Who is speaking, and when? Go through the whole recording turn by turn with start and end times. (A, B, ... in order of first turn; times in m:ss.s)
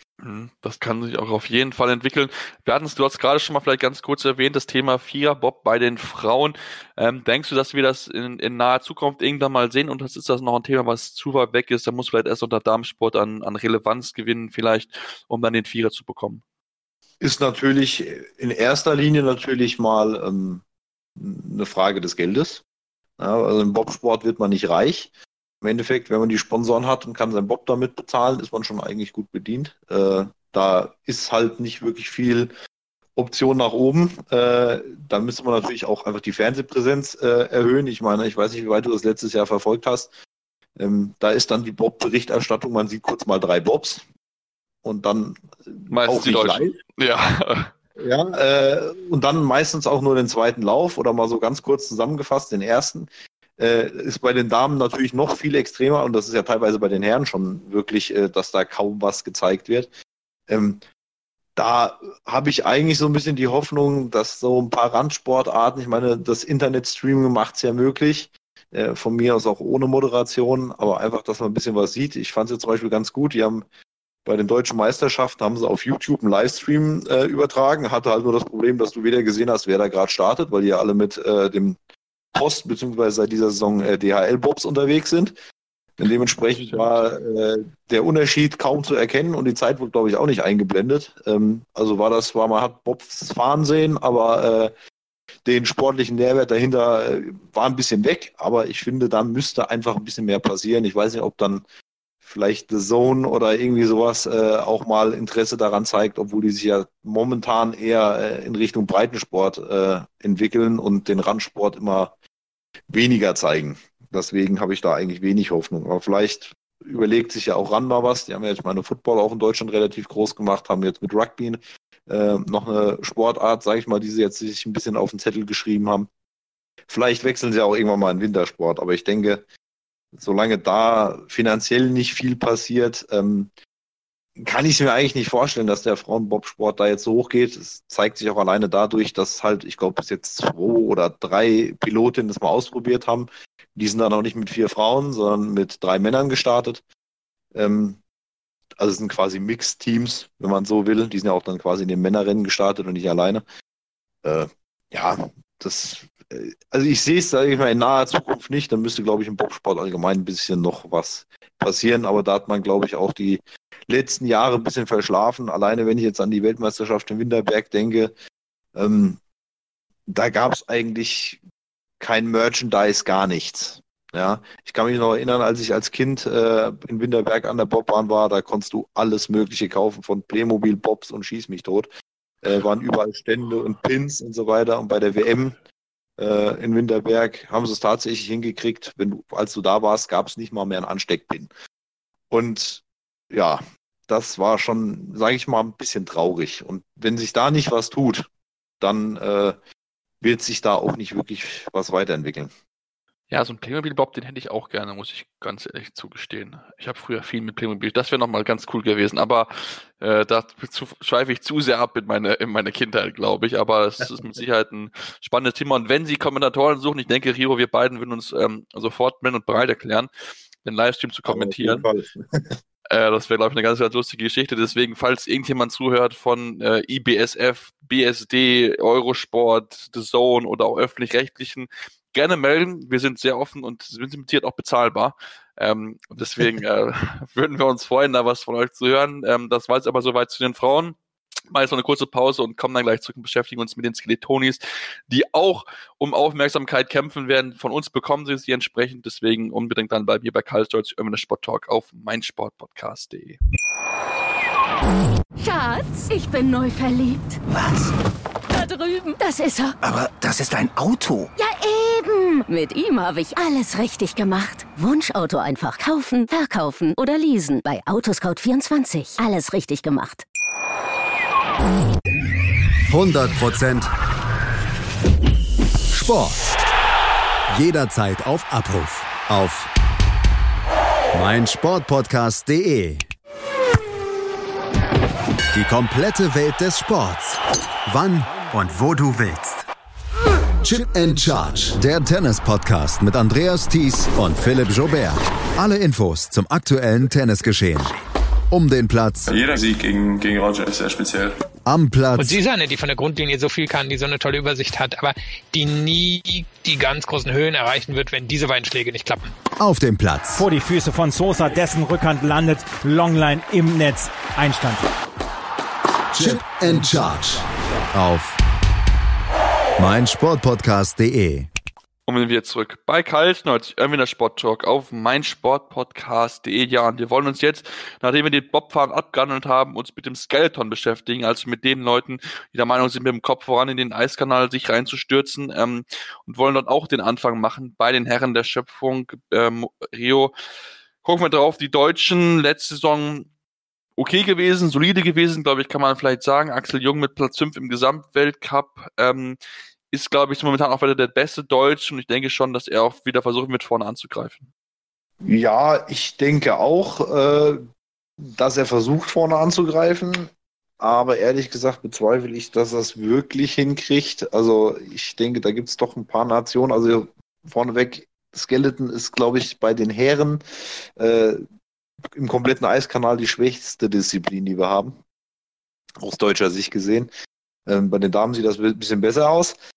0:00.2-0:16.4 A
0:17.2-0:20.6 B
0:21.2-0:22.6 B
0:23.2-0:32.5 B
0:33.2-0:40.1 B
0:40.8-0:44.0 B
0:44.8-0:46.8 B
0:45.9-0:47.7 A
0:48.0-0:59.9 B
1:00.5-1:00.8 B
1:01.6-1:13.6 B
1:14.2-1:21.8 B
1:22.3-1:25.4 B
1:26.0-1:34.7 B
1:26.6-1:27.1 A
1:35.4-1:41.6 B
1:42.2-1:52.1 B
1:52.9-2:06.1 B
2:06.9-2:09.4 B
2:10.1-2:13.5 B
2:14.4-2:26.8 B
2:27.5-2:28.0 B
2:28.8-2:33.4 B
2:34.2-2:48.1 B
2:48.7-2:49.2 B
2:50.1-2:51.4 B
2:52.0-3:01.9 B
3:02.4-3:05.6 B
3:06.2-3:11.5 B
3:12.3-3:18.3 B
3:18.8-3:19.6 B
3:20.2-3:22.5 B
3:23.3-3:40.1 A
3:40.6-3:41.9 A
3:41.2-3:42.6 B
3:42.9-4:01.0 A
4:01.5-4:13.4 A
4:15.4-4:17.4 C
4:17.5-4:17.9 D
4:18.5-4:19.8 C
4:19.8-4:21.3 D
4:21.4-4:30.2 C
4:32.9-4:33.9 E
4:35.9-4:36.4 E
4:37.5-4:39.7 E
4:41.1-4:43.1 E
4:45.5-4:49.6 E
4:50.6-4:57.9 E
4:58.5-4:59.3 E
4:59.3-5:01.4 F
5:01.6-5:02.4 E
5:02.2-5:09.3 G
5:09.6-5:10.4 E
5:10.4-5:14.8 H
5:16.1-5:18.4 E
5:19.8-5:21.5 E
5:22.1-5:40.3 A
5:41.0-5:43.3 A
5:44.0-5:49.4 A
5:49.9-5:54.5 A
5:55.2-5:57.6 B
5:58.2-6:10.4 B
6:11.0-6:11.4 B
6:12.1-6:15.0 B
6:16.0-6:17.1 B
6:17.6-6:19.6 B